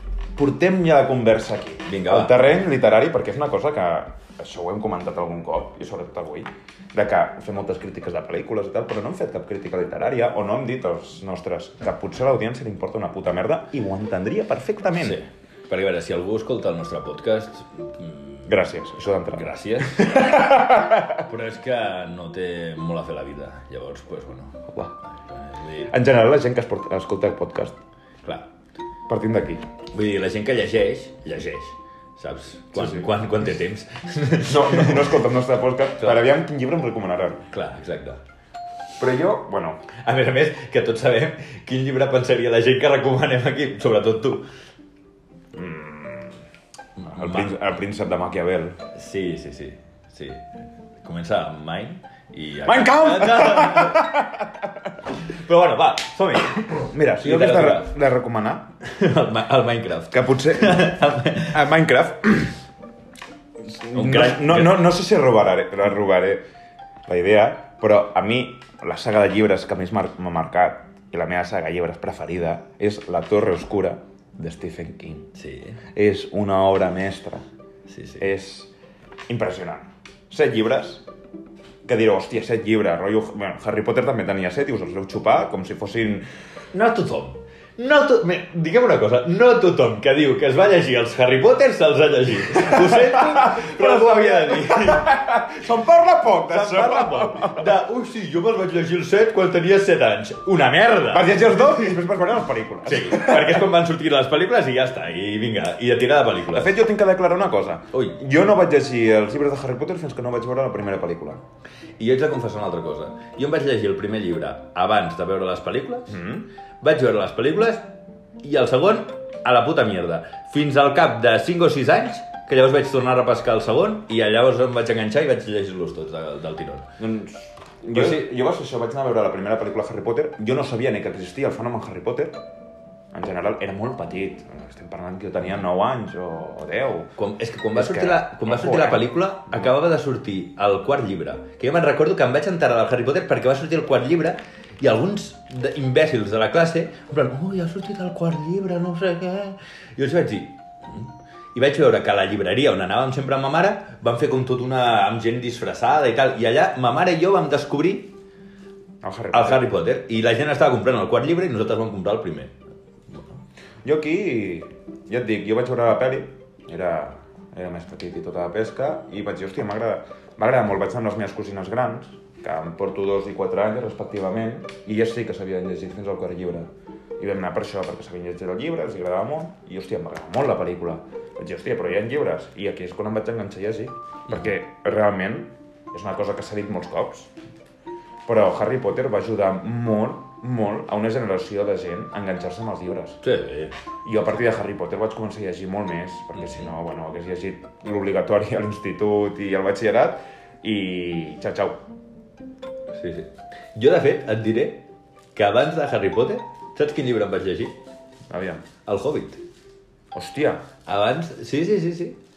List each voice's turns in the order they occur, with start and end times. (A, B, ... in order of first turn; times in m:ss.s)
0:00.4-0:15.2 A
0:01.9-0:02.4 B
0:15.0-0:18.5 B
0:18.5-0:21.3 A
0:19.3-0:25.9 B
0:25.9-0:27.8 A
0:29.1-0:29.6 A
0:29.9-0:35.2 B
0:32.7-0:33.1 A
0:34.5-0:37.4 A
0:37.5-0:38.2 B
0:39.0-0:39.9 A
0:39.9-0:44.5 B
0:45.5-0:46.4 A
0:47.0-0:47.6 B
0:47.1-0:48.8 A
0:48.9-0:50.5 B
0:51.0-0:54.2 B
0:52.6-0:54.7 A
0:55.2-0:57.9 B
0:56.9-0:58.7 A
0:58.8-1:01.7 B
1:00.1-1:02.6 A
1:03.7-1:06.4 A
1:03.8-1:04.9 B
1:07.1-1:15.3 A
1:15.4-1:15.8 B
1:15.9-1:17.5 A
1:17.9-1:18.3 B
1:18.2-1:18.7 A
1:19.3-1:21.0 A
1:21.9-1:26.3 A
1:26.7-1:35.2 B
1:32.5-1:37.7 A
1:36.5-1:41.9 B
1:41.1-1:43.7 A
1:42.8-1:46.8 B
1:46.5-1:51.4 A
1:47.9-1:48.2 B
1:52.0-1:56.2 B
1:56.1-1:56.5 A
1:56.8-1:57.9 B
1:58.4-2:06.9 B
2:07.0-2:12.4 A
2:07.9-2:08.3 B
2:13.1-2:17.1 A
2:17.2-2:38.1 B
2:17.7-2:19.1 A
2:39.0-2:39.6 A
2:39.3-2:42.5 B
2:43.1-2:43.4 B
2:43.8-3:07.3 A
3:08.3-3:13.2 A
3:13.2-3:13.8 B
3:14.0-3:21.8 A
3:22.9-3:27.8 B
3:28.3-3:28.6 A
3:28.9-3:29.4 B
3:30.1-3:30.6 A
3:30.9-3:32.2 B